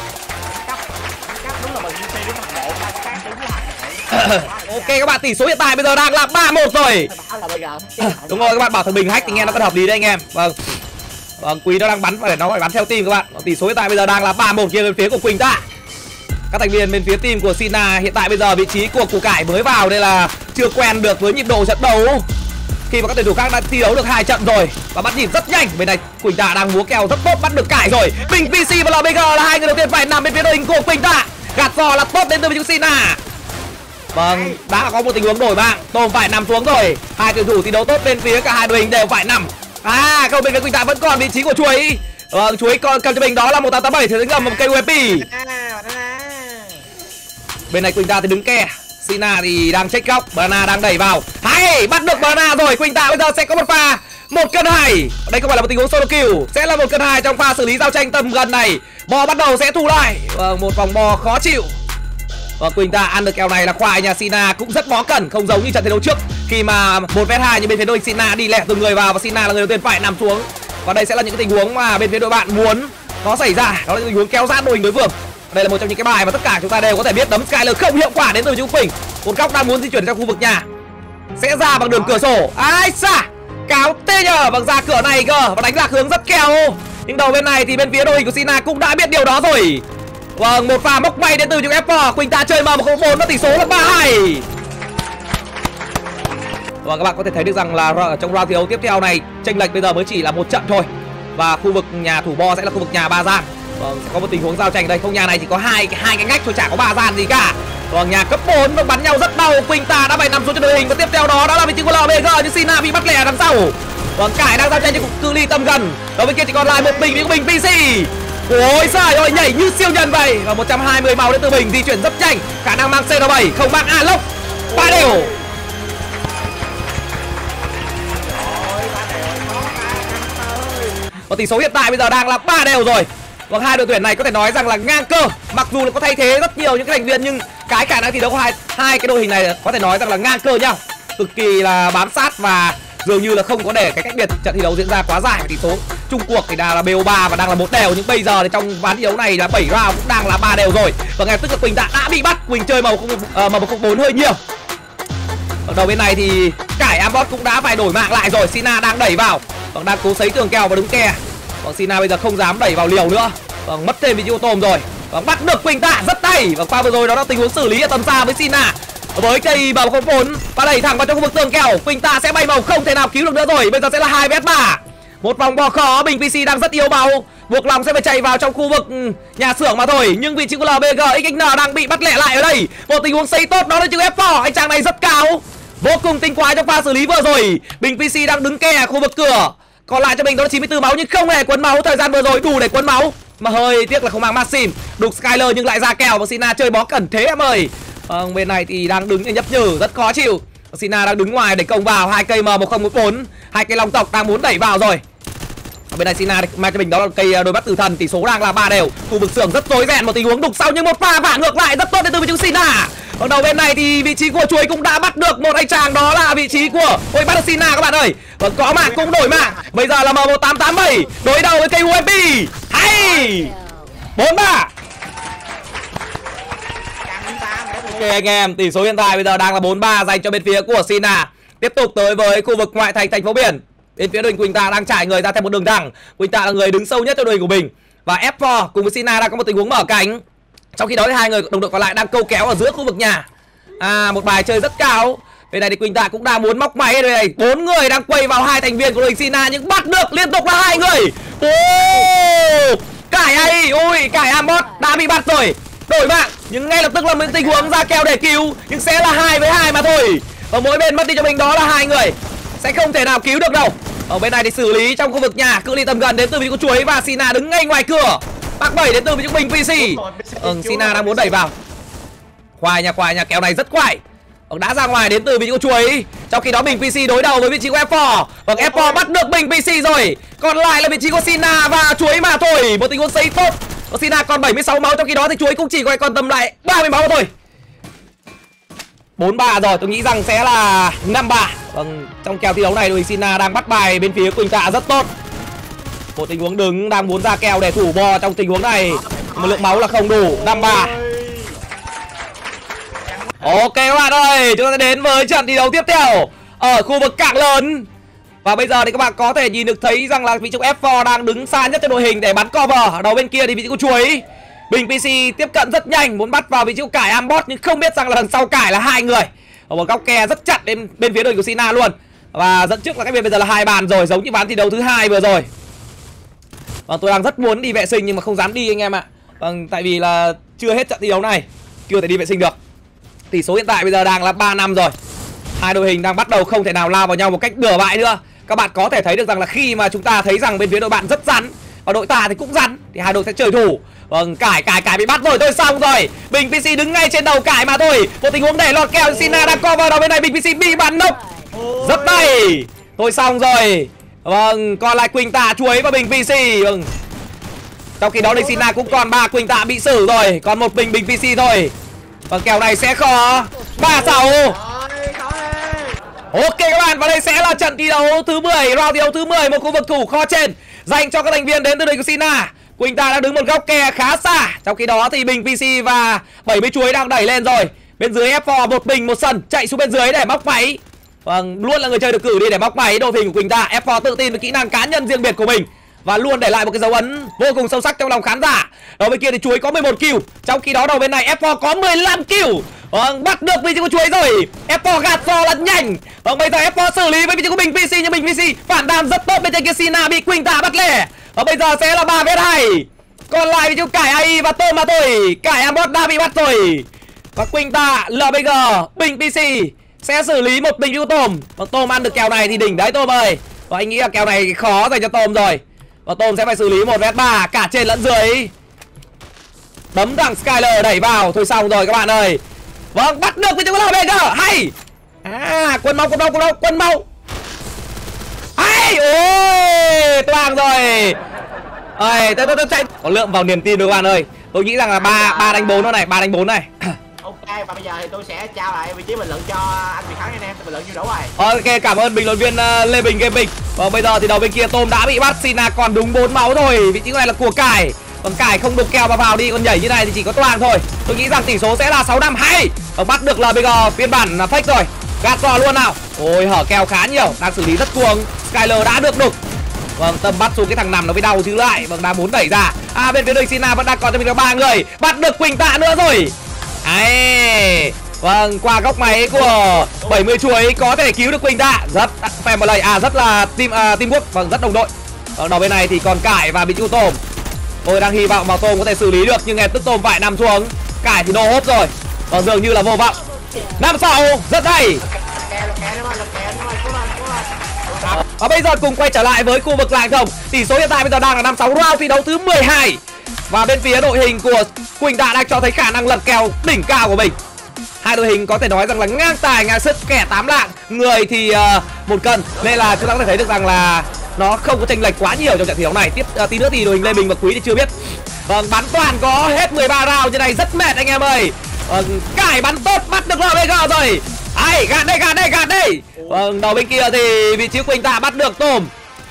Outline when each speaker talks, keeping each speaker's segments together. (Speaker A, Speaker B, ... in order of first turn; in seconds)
Speaker A: 0.5-5.0, 7.0-9.7, 28.2-28.5, 34.2-34.6, 44.3-46.9, 81.8-82.2, 114.6-115.1, 116.6-117.3, 124.7-125.5, 128.2-131.0, 218.8-219.7, 222.8-223.5, 227.0-228.2, 269.8-271.5, 278.6-279.1, 298.8-301.6, 303.1-303.6, 349.0-349.6, 351.5-352.4, 358.2-359.0, 363.8-366.0, 435.0-435.9, 437.2-441.4, 469.1-470.4, 485.1-488.2, 502.6-503.4, 516.2-516.4
Speaker B: 4.1-7.1, 8.0-10.7, 11.4-15.6, 16.5-22.3, 22.9-33.2, 34.1-45.3, 47.7-61.8, 62.6-80.7, 81.4-89.8, 90.4-94.5, 96.8-125.3, 131.3-154.4, 155.7-205.0, 205.9-223.6, 224.2-224.7, 227.9-240.2, 240.8-243.2, 243.8-271.5, 272.6-287.3, 289.2-295.1, 296.2-300.9, 303.4-307.9, 308.4-325.5, 326.9-332.6, 333.3-334.9, 335.6-351.2, 351.8-356.9, 358.0-361.7, 362.3-364.6, 366.3-418.5, 419.9-422.4, 422.9-424.7, 425.2-427.1, 428.6-431.2, 432.0-436.9, 441.4-459.4, 460.0-477.2, 477.9-485.0, 488.1-497.4, 498.0-507.9, 508.5-518.9